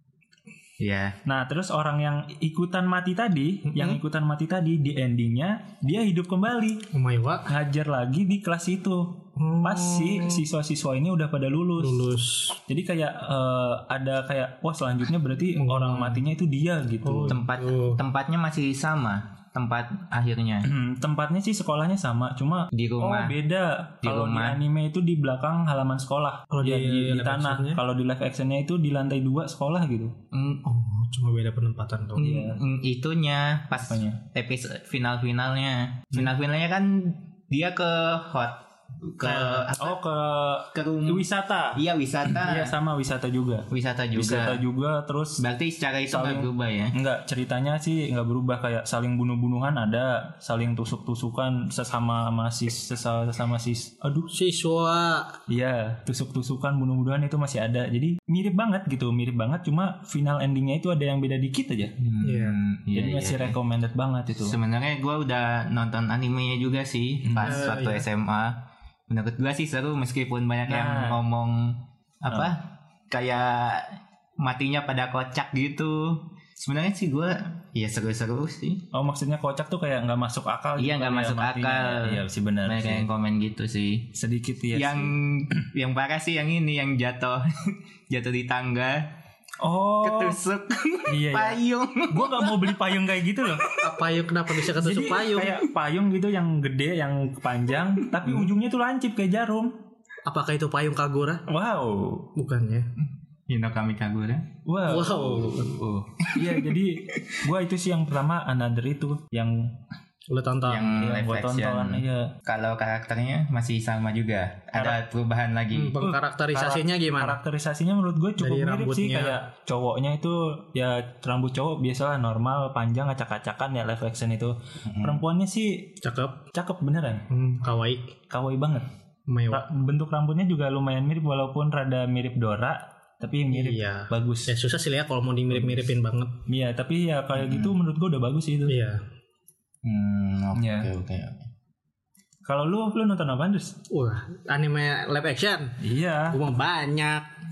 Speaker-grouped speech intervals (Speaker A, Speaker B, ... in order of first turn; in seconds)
Speaker A: 0.8-1.2, 17.3-20.7, 22.7-23.4, 24.0-24.6, 30.3-30.6, 32.2-40.0, 40.7-42.7, 43.7-44.6, 45.4-46.9, 62.0-63.6, 64.4-68.5, 69.1-78.8, 80.8-84.1, 84.7-89.1, 90.0-92.8, 98.2-98.5, 103.5-104.5, 105.6-106.7, 110.7-116.0, 124.8-125.2, 137.3-137.8, 139.8-141.5
Speaker B: 1.2-6.8, 7.5-12.0, 12.7-17.4, 20.6-30.1, 32.2-32.6, 33.9-34.2, 39.7-45.4, 46.1-54.3, 55.5-61.9, 62.9-64.5, 67.2-67.7, 70.7-71.2, 78.9-83.0, 84.2-85.1, 89.6-90.4, 91.1-93.8, 94.7-99.7, 101.5-102.3, 104.6-109.7, 111.0-112.3, 116.0-125.9, 126.5-127.2, 128.3-128.9, 129.5-134.5, 135.6-135.8, 136.5-138.8, 140.6-140.9, 142.4-143.8, 145.8-146.4
Speaker C: 3.7-4.0, 6.9-7.5, 9.4-10.4, 11.8-12.6, 15.6-16.2, 17.0-18.0, 26.5-27.8, 30.6-32.3, 39.2-39.7, 54.3-55.3, 62.2-62.6, 67.4-68.0, 93.8-95.6, 100.2-101.4, 102.3-102.9, 104.9-105.7, 110.3-111.0, 115.7-117.4, 118.4-119.3, 126.0-126.4, 127.3-128.1, 129.3-129.7, 133.5-136.3, 138.7-139.0, 143.9-145.8, 146.3-147.3